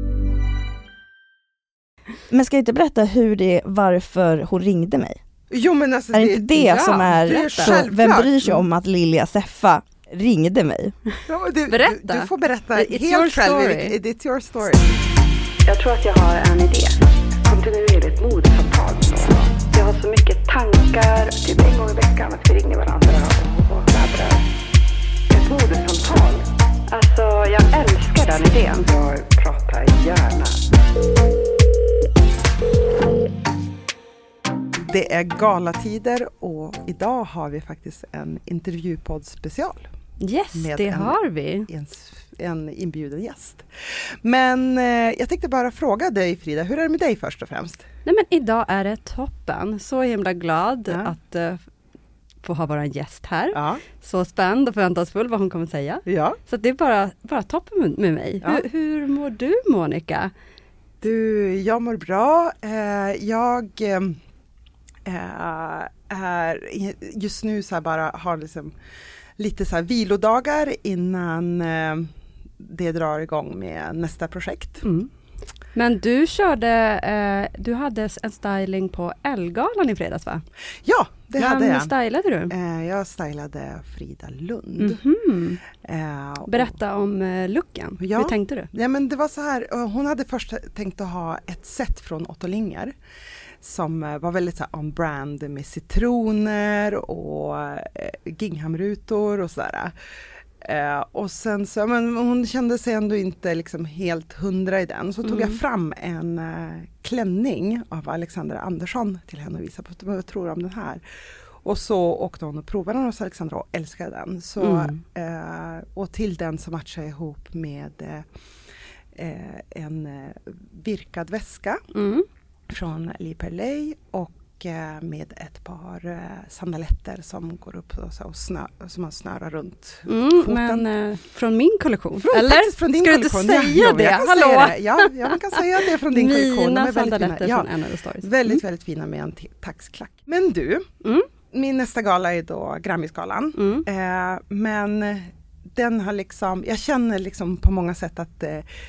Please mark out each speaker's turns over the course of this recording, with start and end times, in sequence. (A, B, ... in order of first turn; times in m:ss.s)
0:02.3-0:05.2 A
0:05.5-0:08.6 B
0:06.1-0:10.9 A
0:06.5-0:07.8 C
0:11.3-0:14.9 B
0:11.7-0:14.0 C
0:15.6-0:16.9 D
0:17.4-0:24.4 D
0:25.3-0:30.6 D
0:34.8-0:39.9 B
0:40.2-0:41.7 C
0:40.5-0:43.6 B
0:44.2-0:47.8 B
0:48.0-0:51.6 C
0:52.4-1:00.3 C
0:53.5-0:53.8 B
0:56.1-0:56.4 B
1:01.0-1:04.2 B
1:05.0-1:08.7 B
1:09.4-1:12.1 B
1:12.6-1:14.8 B
1:14.8-1:15.1 C
1:15.7-1:20.4 C
1:20.8-1:21.9 B
1:21.4-1:22.5 C
1:22.5-1:25.0 B
1:24.8-1:25.6 C
1:25.8-1:26.7 B
1:26.5-1:28.7 C
1:28.0-1:32.9 B
1:33.6-1:39.9 B
1:40.6-1:51.0 B
1:45.2-1:45.6 C
1:51.6-1:58.3 B
1:54.6-1:55.0 C
1:59.1-2:01.8 B
2:01.9-2:02.2 C
2:02.7-2:10.8 B
2:10.1-2:18.6 C
2:12.2-2:17.7 B
2:18.2-2:20.9 B
2:21.5-2:28.6 B
2:23.6-2:23.8 C